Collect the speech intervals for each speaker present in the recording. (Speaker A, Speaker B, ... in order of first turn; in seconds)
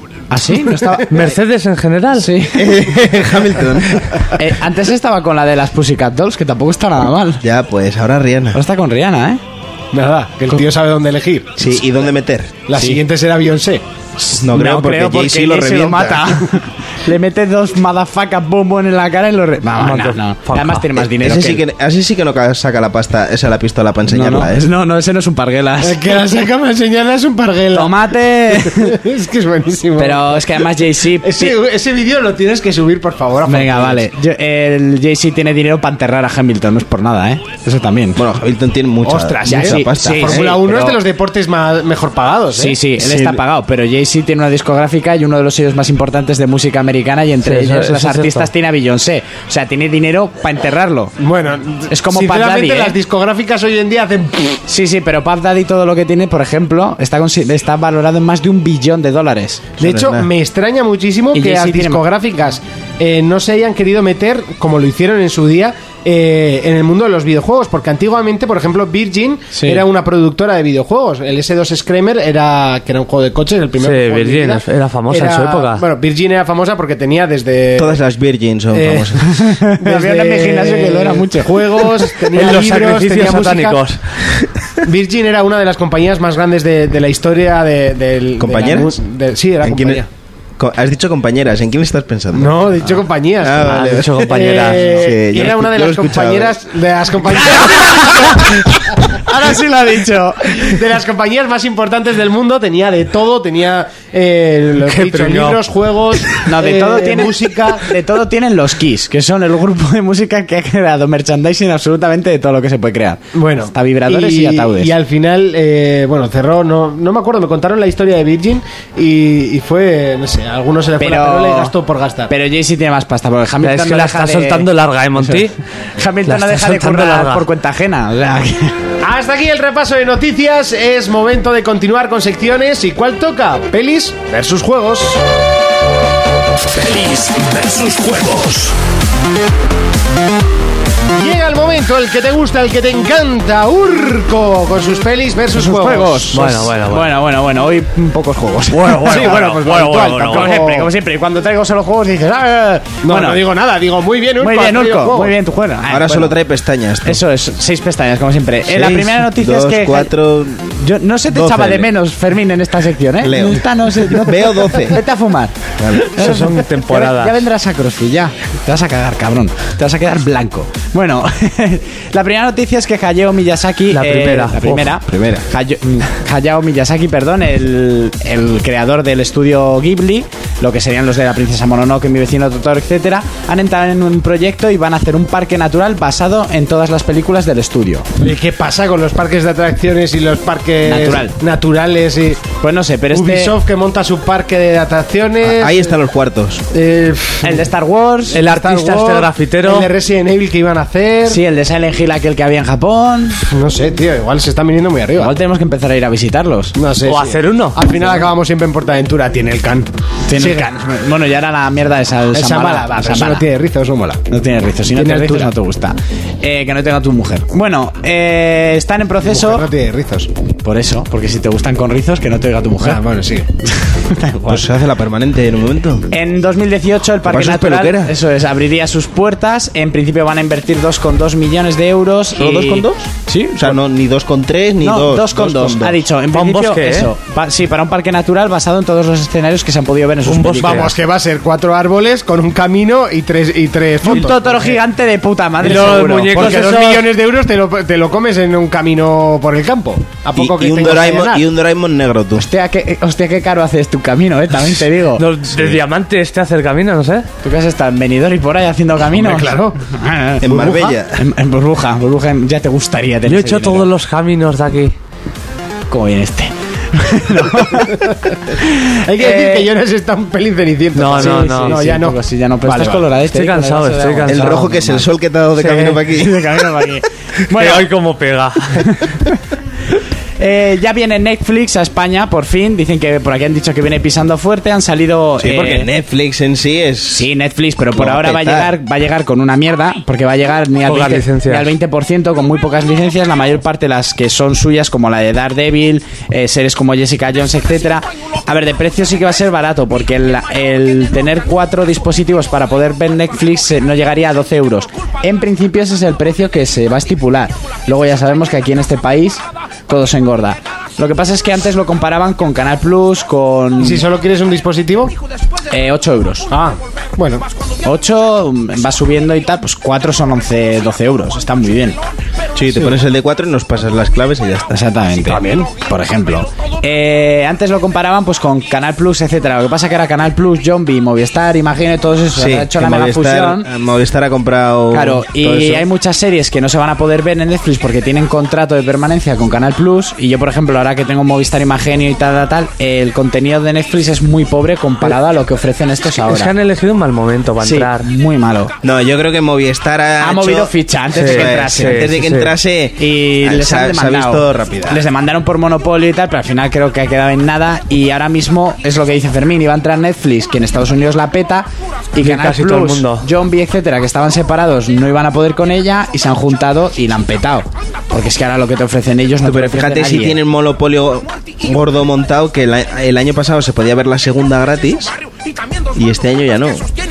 Speaker A: 0.3-1.1, 2.1-2.8, 4.3-7.4, 8.5-9.4, 14.2-21.6, 24.1-26.0, 27.7-28.9, 30.0-31.6, 33.4-38.2, 39.5-41.0, 42.5-51.1, 51.9-53.0, 54.7-59.8, 61.3-62.0, 69.5-69.8, 79.4-81.7, 99.2-100.8, 106.5-113.2, 113.7-114.9, 121.0-121.7, 122.3-128.7, 145.5-153.4, 154.4-156.3, 157.0-160.1, 160.8-165.5, 166.1-188.1, 190.8-191.3, 192.6-193.5, 197.4-198.4, 201.3-203.4, 205.2-206.7, 210.3-213.4, 214.3-219.7, 220.6-223.0, 223.9-224.6, 226.1-233.8, 234.8-240.9, 244.0-246.9, 252.4-255.2, 257.4-263.9, 265.9-268.0, 268.6-269.7, 271.1-275.1, 275.6-277.9, 278.8-279.4, 280.4-285.9, 287.1-314.0, 315.7-316.5, 317.8-322.0, 324.7-333.7, 334.9-346.5, 347.6-348.7, 350.2-352.1, 353.0-370.4
Speaker B: 1.1-2.3, 19.8-20.9, 47.4-48.5, 73.8-75.8, 82.3-84.0, 93.6-94.9, 104.8-105.6, 123.6-125.5, 126.2-127.4, 146.3-147.1, 148.7-150.6, 166.2-167.4, 173.9-174.8, 198.3-199.9, 207.0-207.8, 236.3-237.1, 240.2-240.9, 244.1-244.6, 245.6-247.0, 255.2-257.3, 263.2-264.9, 270.9-271.8, 273.3-274.6, 277.5-278.9, 290.9-291.7, 346.2-348.1, 351.1-352.5, 362.2-363.2
Speaker C: 2.5-4.2, 7.4-8.6, 11.6-12.6, 14.4-16.3, 21.0-24.6, 38.2-40.6, 43.0-43.4, 59.8-60.3, 77.8-79.2, 88.4-88.9, 89.6-90.0, 90.6-92.7, 93.4-96.5, 155.9-157.2, 158.7-160.8, 161.3-161.9, 163.2-165.0, 165.8-166.3, 174.8-175.4, 195.4-196.6, 224.5-226.1, 227.2-228.1, 232.3-236.0, 250.3-252.5, 260.4-261.2, 274.3-276.6, 285.4-287.3, 287.9-288.7, 322.5-324.8, 332.3-335.9, 348.8-355.0, 369.4-375.1, 375.9-376.9
Speaker D: 9.9-11.6, 12.7-13.8, 25.8-34.1, 39.0-42.8, 51.2-54.6, 59.8-78.0, 78.7-83.8, 84.8-90.1, 92.3-98.6, 100.6-107.9, 113.3-122.3, 129.0-135.2, 141.1-146.5, 149.0-150.9, 153.0-155.3, 188.2-192.6, 193.1-195.9, 196.7-197.7, 198.3-201.4, 203.5-205.3, 206.8-210.7, 212.3-214.2, 214.9-215.5, 219.2-220.3, 222.8-223.5, 240.6-244.6, 245.7-251.4, 259.1-259.8, 269.1-273.1, 313.8-315.1, 316.5-317.4, 325.2-325.7
Speaker E: 136.7-138.7